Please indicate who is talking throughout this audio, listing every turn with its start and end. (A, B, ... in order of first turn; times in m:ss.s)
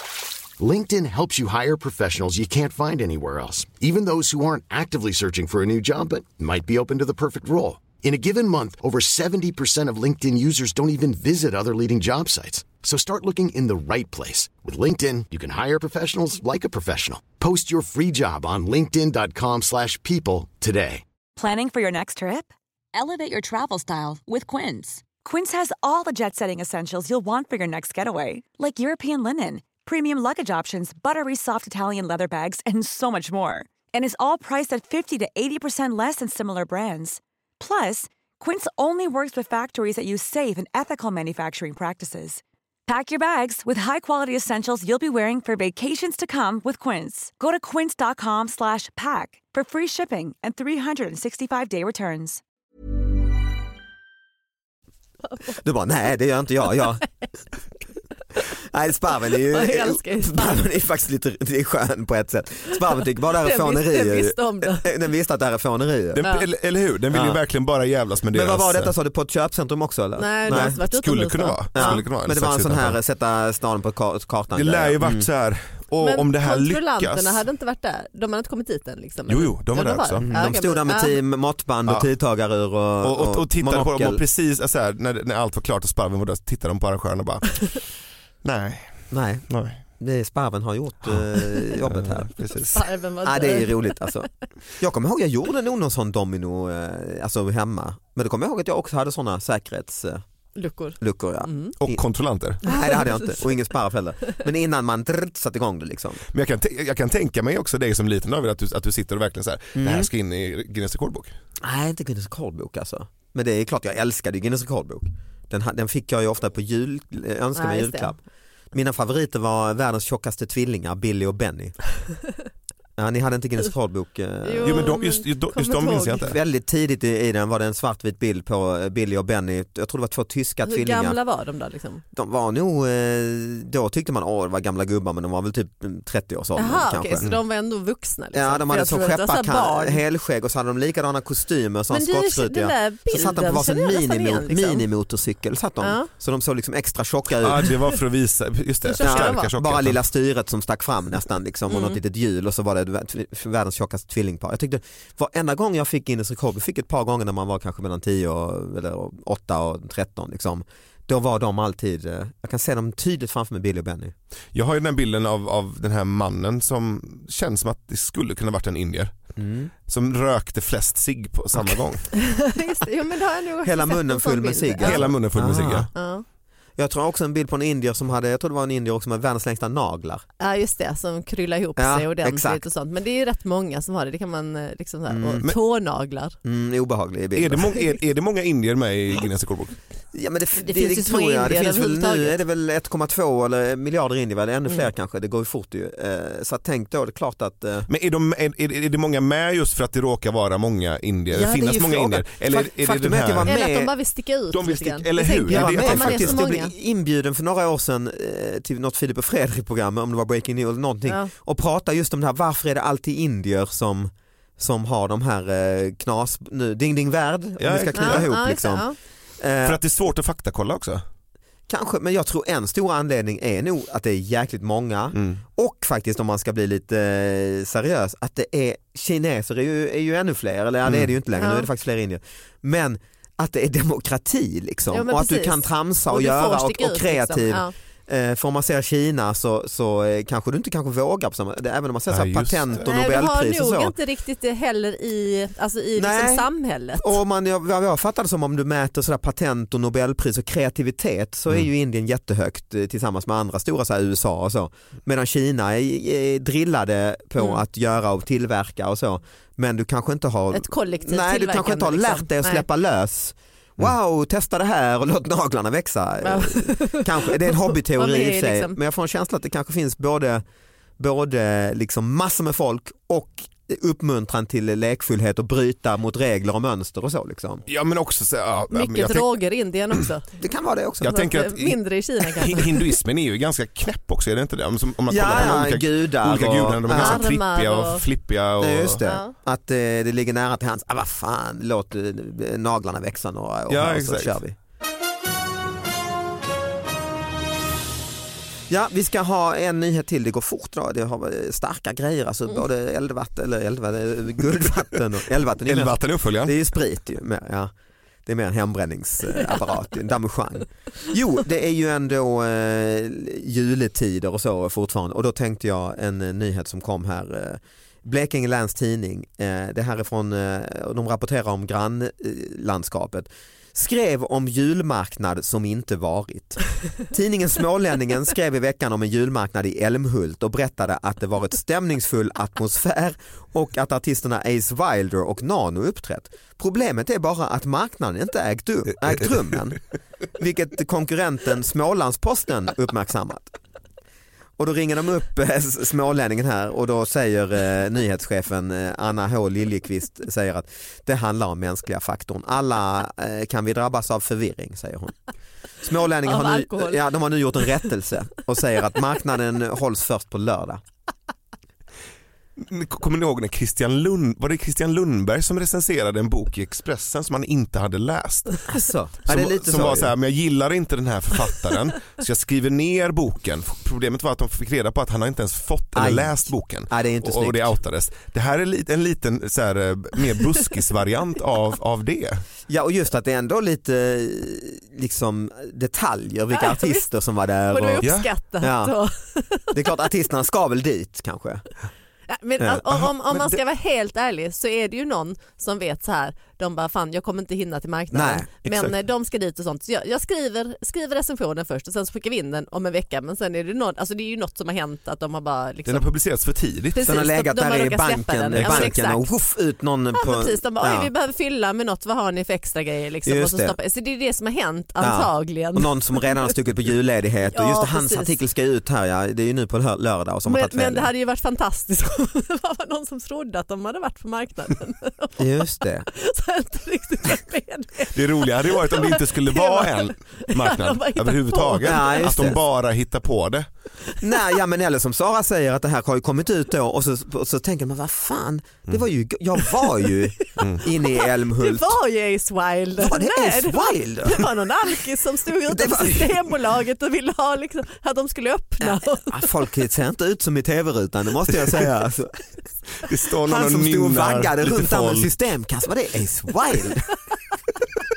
0:00.6-0:21.0 A
0:21.4-0:52.4 B
0:55.5-0:57.0 C
0:58.7-1:06.2 C
0:59.5-1:00.6 D
1:03.4-1:04.9 D
1:06.1-1:08.9 E
1:06.2-1:06.5 D
1:07.1-1:07.4 C
1:08.3-1:10.8 C
1:10.2-1:12.0 D
1:10.4-1:13.0 E
1:11.7-1:15.2 C
1:14.5-1:17.4 E
1:16.0-1:21.2 D
1:19.3-1:20.4 E
1:20.2-1:24.2 C
1:23.0-1:27.8 E
1:28.4-1:29.8 E
1:29.1-1:29.4 C
1:30.0-1:32.3 C
1:31.0-1:32.9 E
1:32.7-1:34.1 D
1:33.2-1:34.3 C
1:34.8-1:40.2 C
1:40.6-1:41.7 D
1:41.0-1:42.0 C
1:41.8-1:42.6 E
1:42.6-1:46.2 C
1:42.6-1:43.4 D
1:46.3-1:51.3 E
1:49.8-1:50.1 C
1:51.6-1:58.2 C
1:57.6-1:58.2 D
1:58.7-2:01.8 C
2:03.0-2:05.0 C
2:04.4-2:06.3 D
2:04.6-2:06.4 E
2:06.2-2:11.2 C
2:10.6-2:12.0 D
2:12.1-2:17.3 C
2:16.6-2:20.0 D
2:18.3-2:27.7 C
2:21.9-2:24.8 D
2:25.8-2:26.1 D
2:27.4-2:30.0 E
2:28.8-2:29.5 D
2:29.0-2:44.1 C
2:31.7-2:32.0 D
2:44.5-2:49.1 E
2:49.4-2:49.7 C
2:49.9-2:52.1 E
2:52.1-2:55.2 D
2:53.6-2:55.9 C
2:54.8-2:55.9 E
2:55.9-2:56.2 D
2:56.8-3:00.2 C
3:00.4-3:06.4 D
3:01.8-3:02.6 C
3:05.1-3:05.5 C
3:06.4-3:07.7 C
3:07.3-3:09.8 E
3:10.1-3:17.9 C
3:10.6-3:12.4 D
3:17.9-3:23.6 E
3:21.4-3:21.9 D
3:21.4-3:23.9 C
3:23.5-3:26.7 D
3:24.5-3:26.4 E
3:25.5-3:38.9 C
3:37.6-3:38.3 E
3:37.9-3:38.9 D
3:39.4-3:39.8 C
3:39.6-3:41.0 E
3:41.7-4:03.9 C
3:45.1-3:45.4 E
3:50.8-3:51.1 E
3:51.4-3:51.7 D
3:54.9-3:57.7 D
4:02.1-4:02.8 E
4:02.8-4:07.1 D
4:06.0-4:06.5 C
4:07.0-4:30.4 C
4:20.5-4:22.6 D
4:26.2-4:28.8 D
4:31.0-4:37.6 C
4:37.6-4:39.3 E
4:38.7-4:40.2 D
4:40.4-4:41.2 C
4:41.0-4:49.0 E
4:41.1-4:42.9 D
4:45.1-4:47.2 C
4:46.9-4:48.0 D
4:48.6-4:54.6 C
4:49.0-4:49.3 D
4:53.7-4:54.4 E
4:58.7-5:07.7 C
5:05.6-5:06.6 E
5:08.2-5:39.8 C
5:40.4-5:43.6 C
5:44.6-5:55.1 C
5:55.8-6:00.8 C
5:56.2-5:57.0 D
6:02.6-6:08.7 E
6:08.7-6:10.1 C
6:09.2-6:22.4 E
6:15.9-6:17.7 C
6:22.7-6:28.1 C
6:26.5-6:27.0 D
6:27.7-6:30.0 D
6:28.0-6:28.3 E
6:28.6-6:28.9 C
6:29.7-6:31.6 C
6:32.3-6:46.0 D
6:32.9-6:33.4 E
6:38.1-6:38.9 C
6:45.8-6:47.2 E
6:46.9-6:49.2 D
6:47.0-6:51.1 C
6:48.5-6:48.9 E
6:50.1-6:56.3 D
6:53.2-6:53.8 C
6:55.0-7:01.1 C
6:57.5-6:58.4 D
7:00.4-7:12.6 D
7:05.4-7:06.0 C
7:08.1-7:13.7 E
7:11.8-7:12.6 C
7:14.2-7:22.0 C
7:20.6-7:29.4 D
7:20.6-7:20.8 E
7:23.0-7:24.5 C
7:25.7-7:26.5 C
7:28.8-7:32.4 C
7:33.0-7:35.3 E
7:33.4-7:37.1 C